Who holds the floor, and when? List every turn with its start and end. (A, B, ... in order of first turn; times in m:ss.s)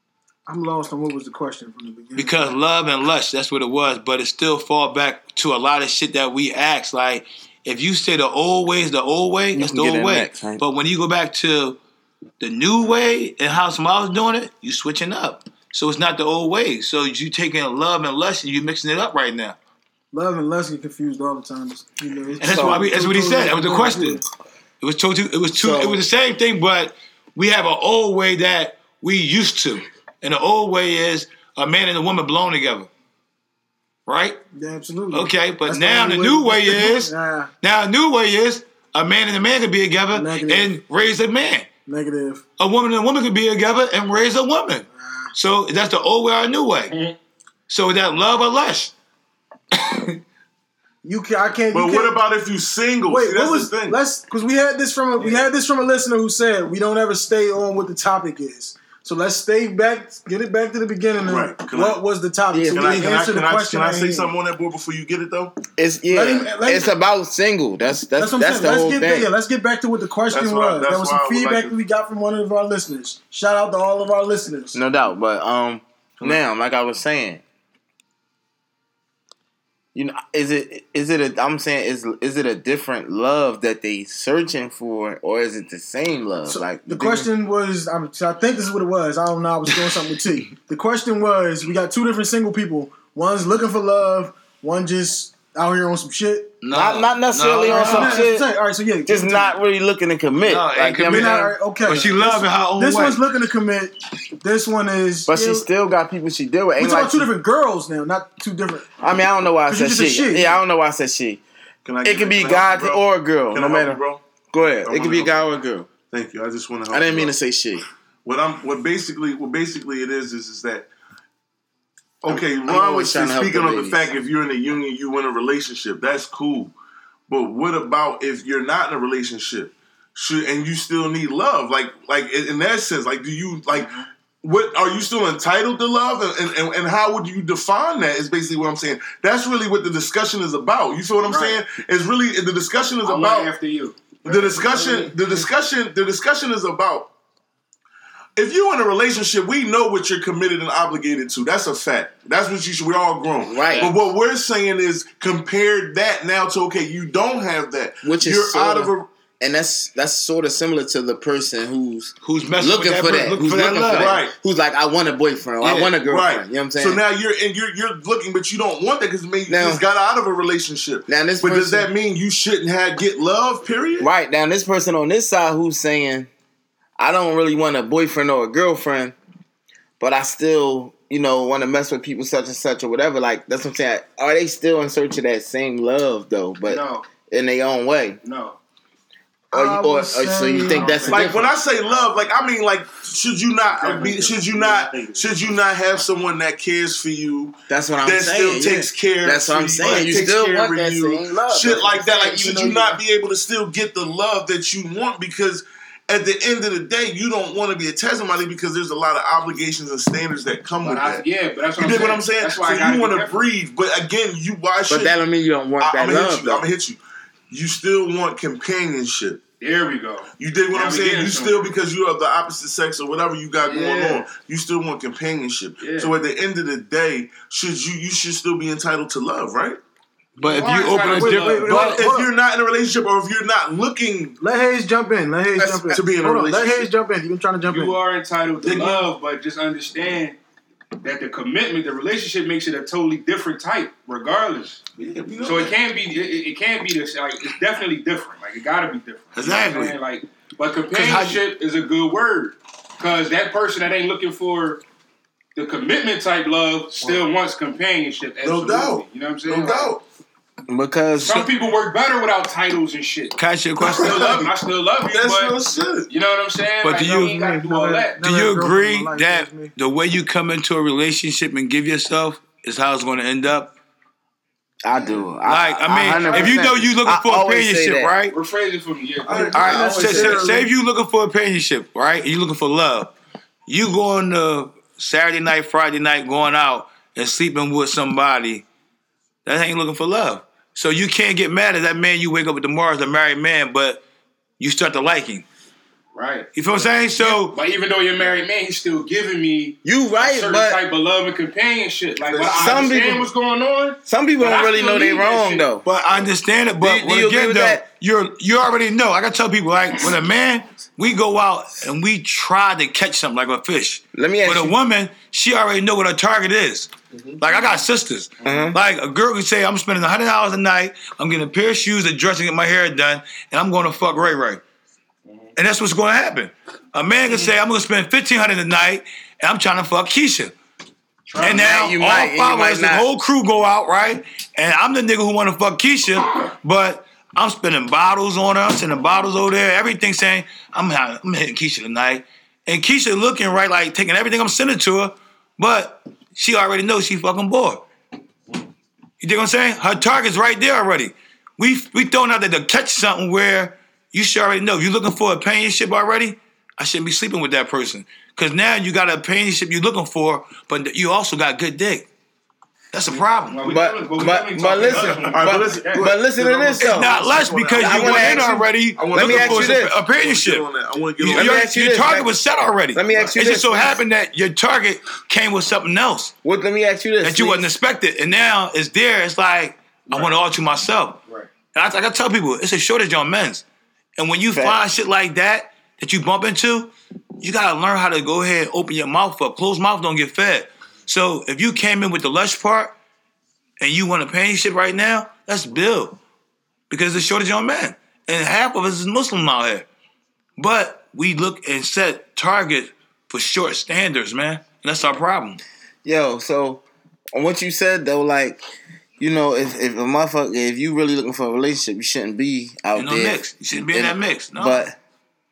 0:00.5-0:02.6 A
0:02.2-0:11.8 B
0:09.5-0:10.6 C
0:12.4-0:19.6 B
0:20.1-0:24.2 A
0:22.4-0:24.2 B
0:24.8-0:32.9 B
0:25.6-0:26.0 C
0:34.1-0:34.4 B
0:34.6-0:37.5 A
0:35.1-0:41.7 B
0:40.1-0:40.7 A
0:41.9-0:42.4 A
0:42.6-0:46.9 B
0:45.0-0:45.3 A
0:46.9-0:47.2 D
0:47.7-0:48.9 B
0:49.7-0:50.1 B
0:51.0-0:52.2 A
0:51.7-0:54.0 E
0:53.1-1:04.3 A
1:01.2-1:02.0 E
1:02.5-1:03.2 C
1:02.7-1:05.6 E
1:05.8-1:09.3 C
1:06.1-1:06.9 A
1:08.2-1:14.8 A
1:10.3-1:11.8 E
1:14.7-1:17.4 C
1:20.0-1:27.3 C
1:26.5-1:36.6 A
1:36.6-1:38.2 B
1:36.7-1:38.5 C
1:37.6-1:39.6 A
1:39.1-1:41.5 C
1:40.5-1:43.2 B
1:41.0-1:45.7 A
1:45.3-1:47.3 C
1:46.8-1:48.9 A
1:49.0-1:51.4 C
1:49.7-1:50.6 A
1:51.8-1:54.2 E
1:52.0-1:55.9 C
1:54.8-1:55.4 E
1:56.1-1:57.3 E
1:56.9-1:57.8 C
1:58.2-2:00.9 E
2:02.2-2:06.7 E
2:02.3-2:04.1 C
2:07.3-2:23.5 E
2:21.2-2:21.6 D
2:23.0-2:25.5 D
2:24.2-2:27.1 E
2:28.4-2:39.1 E
2:33.4-2:34.0 C
2:38.0-2:47.0 C
2:42.2-2:44.2 B
2:43.4-2:44.3 E
2:45.6-2:54.1 E
2:49.5-2:49.8 C
2:51.1-2:51.9 C
2:54.0-2:56.3 C
2:57.0-2:59.1 C
3:00.0-3:08.2 C
3:06.6-3:07.1 D
3:08.2-3:08.6 D
3:09.5-3:11.2 A
3:09.5-3:11.5 C
3:10.7-3:11.3 D
3:11.1-3:31.2 E
3:13.7-3:15.1 D
3:17.7-3:23.0 C
3:30.8-3:33.5 D
3:31.8-3:35.2 E
3:34.9-3:36.6 C
3:35.8-3:37.0 E
3:37.5-3:39.4 E
3:39.6-3:41.7 D
3:40.4-3:49.8 E
3:43.6-3:44.3 D
3:45.8-3:46.1 D
3:50.4-3:51.9 B
3:50.4-3:52.0 D
3:51.0-3:52.3 A
3:51.1-3:54.4 E
3:54.4-3:58.0 A
3:55.6-3:56.0 D
3:55.9-3:56.9 E
3:57.7-4:00.4 D
3:58.6-3:59.1 E
4:01.0-4:04.8 D
4:05.0-4:05.8 E
4:05.4-4:14.8 D
4:09.4-4:10.0 B
4:10.9-4:11.4 B
4:15.6-4:19.9 D
4:18.4-4:20.0 E
4:20.7-4:21.5 C
4:21.2-4:25.6 D
4:23.4-4:24.2 B
4:23.8-4:26.1 E
4:26.1-4:28.2 D
4:26.8-4:27.4 B
4:27.2-4:29.7 A
4:28.2-4:33.8 B
4:34.8-4:38.1 C
4:35.4-4:38.4 B
4:36.1-4:36.9 D
4:38.3-4:40.2 D
4:39.3-4:40.5 E
4:39.3-4:40.7 A
4:39.5-4:43.2 B
4:43.7-4:48.6 B
4:49.4-4:54.0 B
4:54.6-4:55.4 B
4:56.1-5:05.7 D
4:56.6-4:57.6 B
4:59.8-5:00.8 C
5:02.3-5:03.2 E
5:02.4-5:03.3 C
5:04.1-5:05.8 C
5:05.8-5:24.6 B
5:06.8-5:07.8 C
5:14.1-5:14.8 C
5:18.4-5:18.7 D
5:18.4-5:18.8 C
5:25.2-5:25.5 D
5:25.6-5:30.5 B
5:31.3-5:31.7 D
5:31.4-5:47.8 B
5:31.4-5:33.1 C
5:49.2-6:02.1 B
6:02.9-6:03.7 B
6:03.2-6:06.1 D
6:03.7-6:07.1 C
6:04.8-6:11.8 E
6:06.8-6:10.7 B
6:07.8-6:10.0 C
6:11.2-6:16.3 B
6:11.3-6:12.4 C
6:12.9-6:14.0 C
6:16.4-6:17.7 C
6:17.2-6:21.2 B
6:20.1-6:20.4 D
6:21.7-6:23.6 B
6:24.2-6:33.0 B
6:24.5-6:24.8 C
6:33.8-6:36.2 B
6:36.9-6:39.9 B
6:40.6-6:45.6 B
6:46.0-6:48.6 C
6:49.2-6:53.4 C
6:53.0-6:54.9 B
6:53.9-6:55.0 C